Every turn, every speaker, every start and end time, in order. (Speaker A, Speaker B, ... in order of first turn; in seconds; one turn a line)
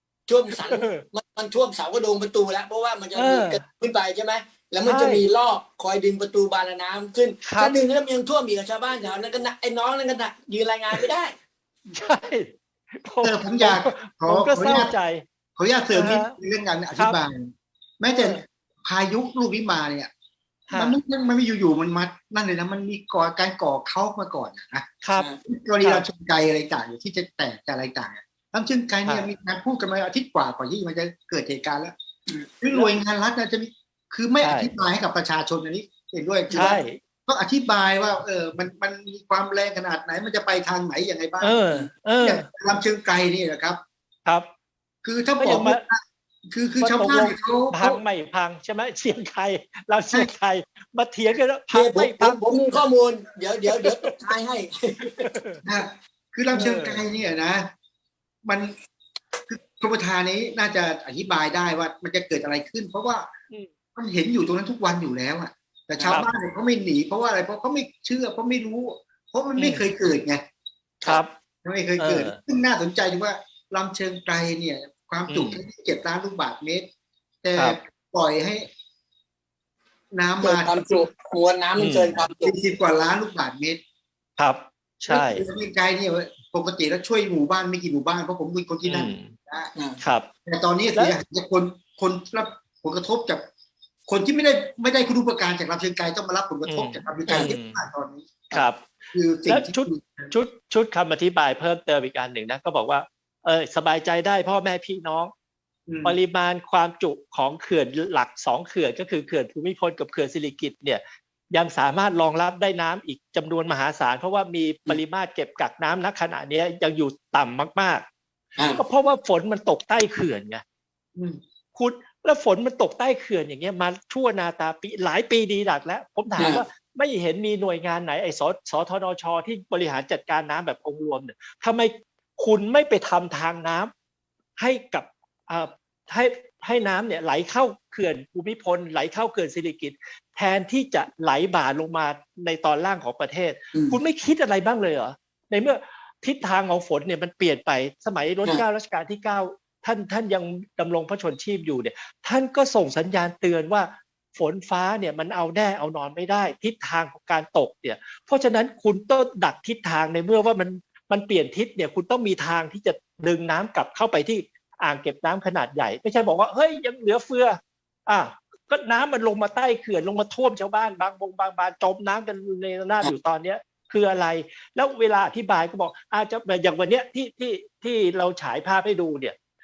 Speaker A: 0.3-11.3
Speaker B: 0.7-1.0
Speaker B: 3.1-3.6
Speaker B: 4.8-5.2
Speaker B: 7.4-7.8
Speaker B: 11.9-15.2
Speaker C: 13.2-14.9
Speaker C: 15.6-20.1
Speaker B: 15.9-16.4
Speaker B: 18.1-18.4
Speaker B: 20.7-21.0
Speaker C: 20.7-24.9
Speaker B: 25.0-25.3
Speaker C: 25.4-31.9
Speaker B: 29.1-29.3
Speaker C: 32.6-43.8
Speaker B: 34.4-34.7
Speaker B: 36.5-37.0
Speaker B: 41.4-42.5
Speaker C: 45.0-48.0
Speaker B: 45.4-45.8
Speaker B: 46.8-52.9
Speaker A: 51.7-55.3
Speaker B: 53.7-54.1
Speaker B: 55.2-55.6
Speaker C: 55.6-57.7
Speaker B: 56.5-57.0
Speaker C: 58.5-58.7
Speaker C: 59.5-63.3
Speaker C: 64.0-70.4
Speaker B: 69.6-69.9
Speaker B: 71.0-71.3
Speaker C: 71.6-76.9
Speaker B: 72.0-72.4
Speaker B: 75.3-75.6
Speaker C: 77.4-78.7
Speaker C: 80.1-80.8
Speaker A: 80.4-82.5
Speaker B: 81.8-82.2
Speaker C: 82.4-83.8
Speaker B: 84.4-85.4
Speaker C: 85.1-89.7
Speaker B: 88.8-89.3
Speaker B: 90.0-90.3
Speaker C: 90.5-93.4
Speaker C: 94.1-100.3
Speaker B: 96.7-97.8
Speaker A: 97.3-97.5
Speaker B: 98.5-98.8
Speaker B: 99.5-105.3
Speaker C: 105.9-106.2
Speaker B: 106.0-118.0
Speaker B: 118.8-120.6
Speaker B: 121.8-133.9
Speaker A: 126.4-126.6
Speaker B: 134.6-179.3